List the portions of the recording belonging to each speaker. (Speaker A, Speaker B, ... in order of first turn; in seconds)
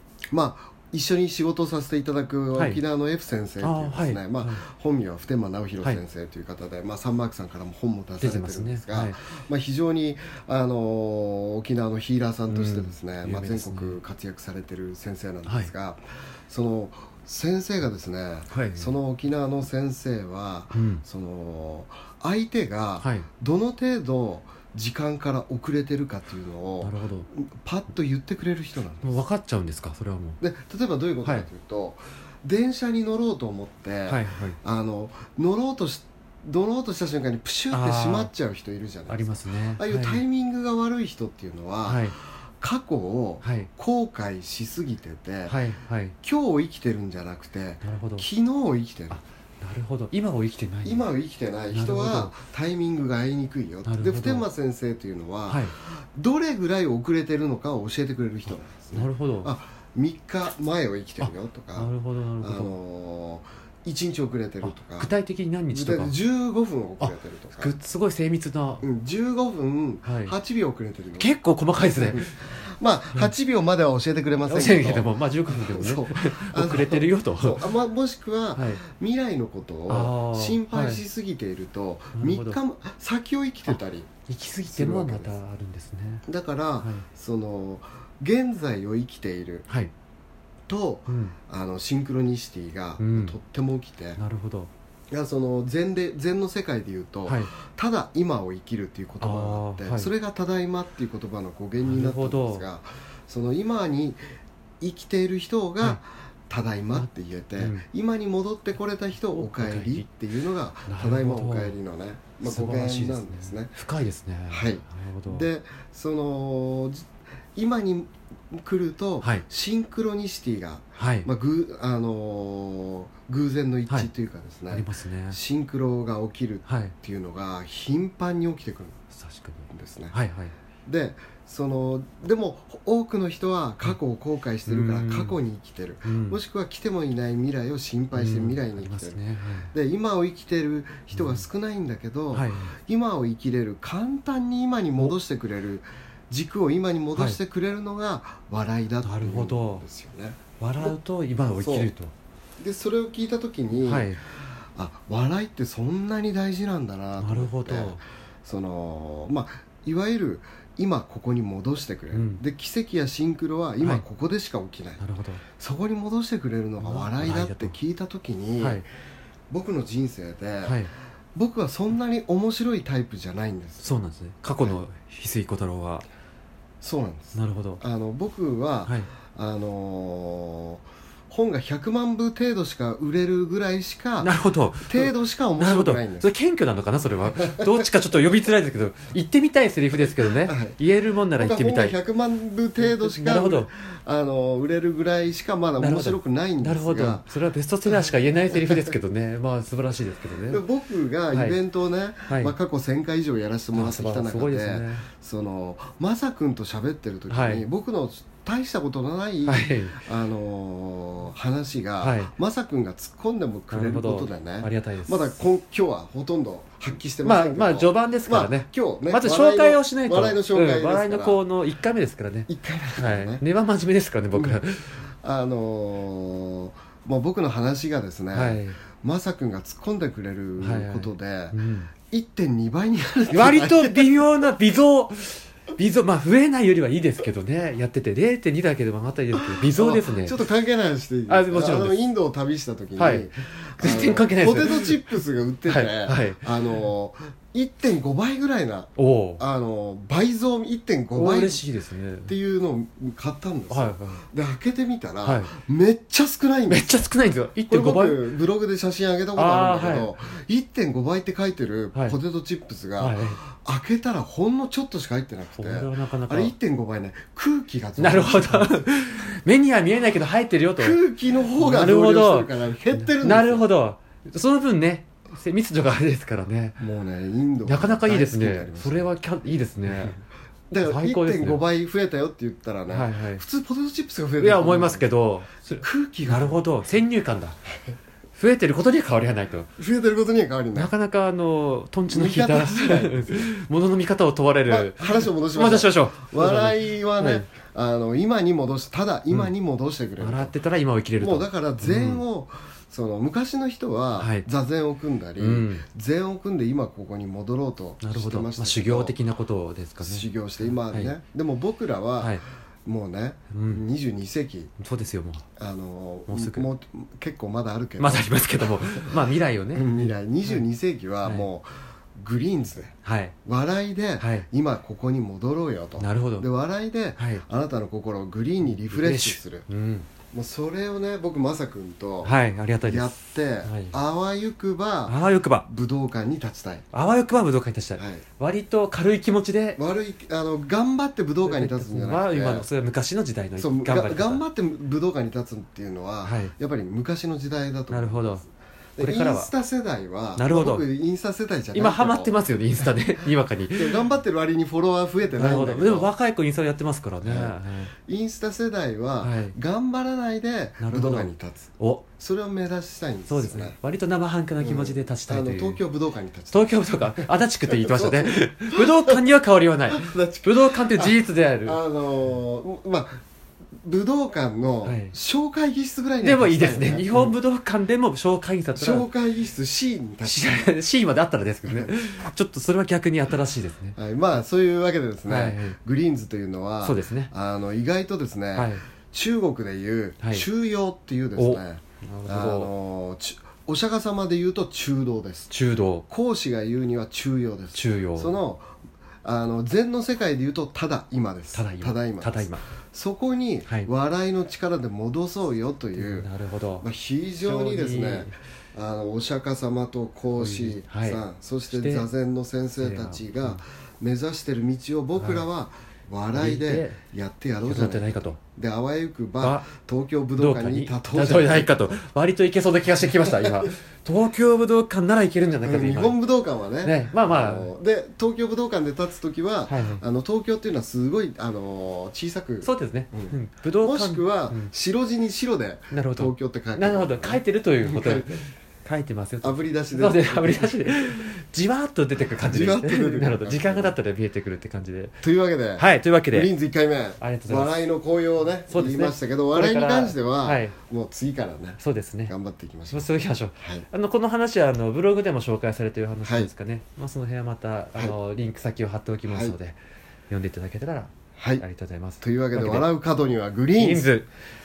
Speaker A: 0.3-29.2, 30.4-45.6, 46.2-49.2, 50.8-65.1, 65.7-67.7, 68.8-71.3, 71.9-84.1, 84.7-85.4, 86.2-89.7, 90.7-94.2, 95.1-104.2, 104.8-113.7, 114.5-129.0, 129.7-130.1, 130.8-139.2, 139.7-150.9, 151.6-151.9, 152.6-165.0, 165.6-168.8, 169.5-170.8, 171.3-173.9, 176.8-186.3, 187.4-187.8, 189.9-190.8, 191.3-197.3, 197.8-198.9, 200.5-221.4, 222.5-223.4, 224.3-224.6, 225.2-234.2, 239.4-251.6, 252.2-257.1, 257.7-268.7, 270.8-273.7, 276.8-279.1, 279.9-280.1, 280.7-285.1, 285.8-286.6, 289.8-290.9, 292.1-293.5, 294.7-300.5, 301.2-309.1, 310.0-314.7, 315.6-319.1, 319.7-322.9, 323.4-329.7, 330.3-332.3, 332.9-336.8, 338.0-338.2, 339.8-342.7, 343.6-348.4, 349.0-352.3, 353.7-356.1, 357.2-363.8, 364.6-369.2, 369.9-373.2, 373.8-377.3, 378.8-380.4, 381.7-381.9, 383.9-395.5, 396.1-406.3, 406.8-422.0, 423.3-423.6, 425.6-438.4, 439.4-441.0, 442.4-443.9, 445.2-453.9, 456.2-456.5, 459.3-459.6, 461.4-461.6, 462.2-464.1
Speaker B: 2.5-2.8, 3.6-4.6, 8.2-9.2, 12.5-14.0, 15.4-15.7, 18.5-18.9, 20.7-21.0, 23.0-23.2, 26.8-27.3, 29.0-30.4, 34.1-34.6, 37.7-38.3, 39.1-40.2, 41.9-42.1, 43.4-43.7, 45.5-46.1, 47.8-48.2, 49.1-51.0, 51.7-52.3, 53.8-54.5, 55.5-55.7, 58.9-59.5, 61.2-62.7, 64.6-66.1, 67.0-68.8, 70.0-70.3, 71.2-72.3, 74.5-77.6, 78.5-78.8, 79.9-81.0, 82.1-82.6, 83.7-86.2, 91.1-91.3, 93.0-93.3, 94.2-94.7, 97.3-97.5, 99.2-100.1, 101.8-102.6, 106.9-107.8, 109.2-110.0, 110.9-111.8, 112.4-115.5, 121.0-121.3, 124.7-125.4, 126.7-126.9, 129.1-130.5, 134.7-135.4, 136.0-136.4, 138.1-139.7, 141.1-141.4, 142.3-142.7, 149.0-149.8, 150.6-152.1, 153.8-154.2, 157.2-158.0, 162.1-162.4, 165.0-165.4, 166.8-167.8, 170.6-170.9, 173.8-176.0, 177.3-177.8, 184.2-191.9, 192.8-193.7, 195.8-200.6, 201.3-201.6, 202.3-202.5, 203.7-205.1, 207.3-207.6, 209.4-210.0, 212.0-212.3, 213.7-215.4, 217.2-224.9, 228.3-228.8, 230.6-231.9, 233.3-240.4, 241.3-242.0, 243.0-243.3, 243.8-245.0, 245.7-246.4, 249.0-249.4, 251.1-252.3, 253.7-254.2, 255.2-255.5, 256.7-258.2, 259.3-260.1, 263.0-263.4, 265.6-266.5, 268.0-271.0, 271.5-276.8, 277.7-280.2, 280.8-281.6, 282.9-283.4, 284.4-287.6, 288.4-289.7, 290.7-297.4, 300.2-302.2, 304.2-304.4, 305.4-305.8, 308.0-311.1, 313.5-313.8, 314.8-315.4, 316.3-316.6, 318.0-320.6, 323.0-323.3, 324.2-324.4, 326.0-326.5, 327.2-327.4, 328.7-330.1, 332.2-333.1, 333.6-333.9, 335.1-335.6, 336.9-339.8, 341.4-344.4, 346.2-346.5, 347.9-348.4, 349.0-349.5, 350.4-350.8, 351.7-354.0, 355.4-357.9, 359.2-359.6, 360.8-362.0, 363.3-365.8, 366.5-371.8, 374.8-375.1, 376.2-379.1, 380.2-383.9, 385.3-385.8, 386.8-387.3, 388.5-388.8, 390.2-390.5, 391.4-392.7, 395.5-396.1, 397.7-398.3, 401.5-402.6, 405.9-406.9, 407.4-408.3, 410.4-412.1, 412.8-413.6, 415.2-415.4, 416.3-417.0, 417.6-418.4, 419.4-419.6, 420.4-426.2, 426.8-427.7, 429.7-430.0, 432.6-434.7, 435.9-445.2, 445.8-446.5, 447.2-447.8, 448.7-450.7, 451.8-452.3, 452.9-459.8, 460.3-462.9, 463.8-464.3